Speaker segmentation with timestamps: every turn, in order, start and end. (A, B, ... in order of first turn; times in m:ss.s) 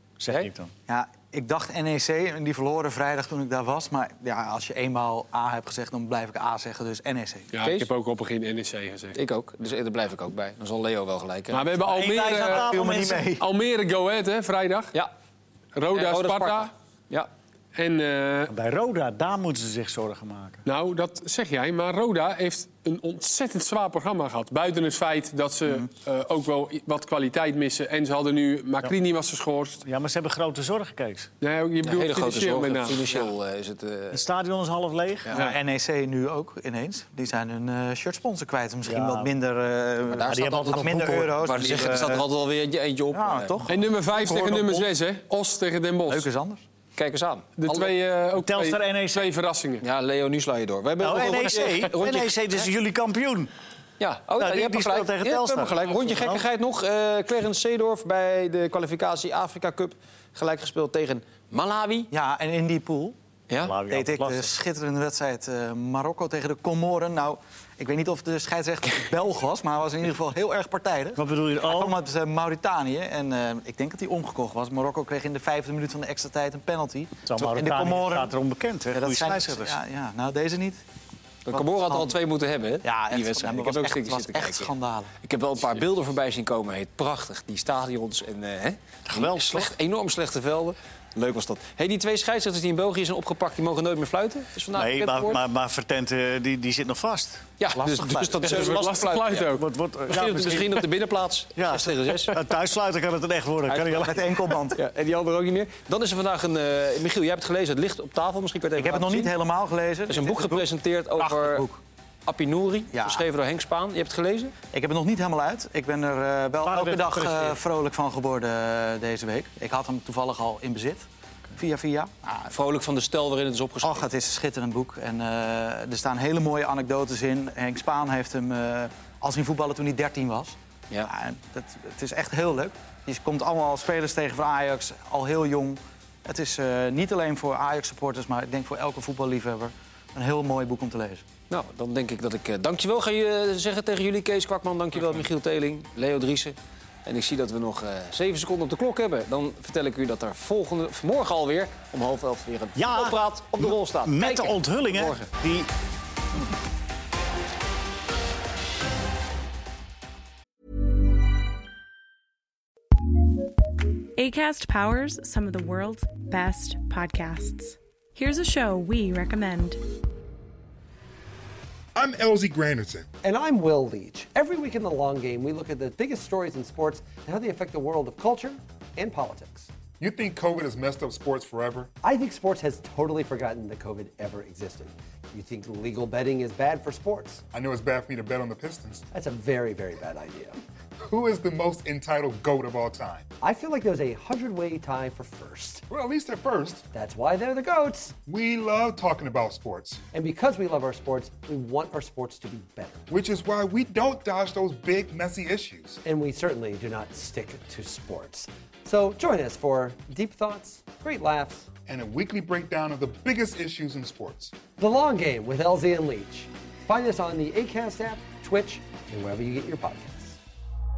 0:00.2-0:00.7 A
0:00.9-0:07.5 B
0:07.5-0:09.2 C
0:07.6-0:07.9 D
0:09.2-0:11.7 D
0:11.5-0:14.9 C
0:11.8-0:13.3 A
0:12.3-0:13.4 B
0:15.8-0:16.7 C
0:15.9-0:17.3 D
0:17.8-0:18.5 C
0:18.5-0:20.6 A
0:20.7-0:29.8 C
0:29.8-0:31.3 A
0:31.4-0:33.3 C
0:31.8-0:34.3 D
0:34.1-0:35.3 A
0:35.3-0:42.2 B
0:38.8-0:39.3 A
0:40.1-0:43.6 D
0:40.2-0:42.2 A
0:43.1-0:44.9 B
0:43.7-0:46.3 C
0:46.1-0:46.6 B
0:47.0-0:47.8 D
0:47.6-0:49.8 C
0:48.4-0:49.3 A
0:49.8-0:52.7 D
0:51.0-0:53.5 A
0:54.0-1:02.1 D
0:54.4-0:56.4 A
1:02.1-1:03.2 B
1:03.5-1:03.8 D
1:03.6-1:04.6 A
1:03.9-1:18.3 B
1:11.2-1:12.0 A
1:17.3-1:19.8 A
1:18.9-1:20.8 B
1:21.5-1:35.5 D
1:21.5-1:22.1 B
1:22.8-1:25.1 B
1:29.1-1:29.7 A
1:34.7-1:37.5 A
1:37.6-1:39.5 D
1:37.7-1:38.8 B
1:38.4-1:39.7 C
1:39.5-1:40.9 A
1:40.1-1:42.4 D
1:41.6-1:44.4 A
1:43.7-1:44.1 D
1:44.0-1:44.8 B
1:44.7-1:49.3 D
1:48.8-1:51.8 B
1:50.1-1:51.7 D
1:52.3-1:54.5 D
1:52.9-1:53.3 B
1:54.7-2:02.5 B
1:56.6-1:57.6 A
2:02.5-2:04.1 D
2:03.8-2:21.2 B
2:21.5-2:35.3 D
2:32.8-2:35.7 A
2:44.2-2:49.8 E
2:52.0-2:53.1 F
2:53.2-2:59.7 G
3:00.0-3:01.9 F
3:02.0-3:07.4 G
3:07.5-3:09.0 F
3:09.1-3:10.6 G
3:11.1-3:13.3 F
3:13.4-3:15.8 G
3:15.9-3:16.8 F
3:16.9-3:18.2 G
3:18.3-3:20.0 F
3:20.1-3:23.0 G
3:23.1-3:26.0 F
3:26.0-3:31.7 G
3:31.9-3:34.5 F
3:34.8-3:40.4 G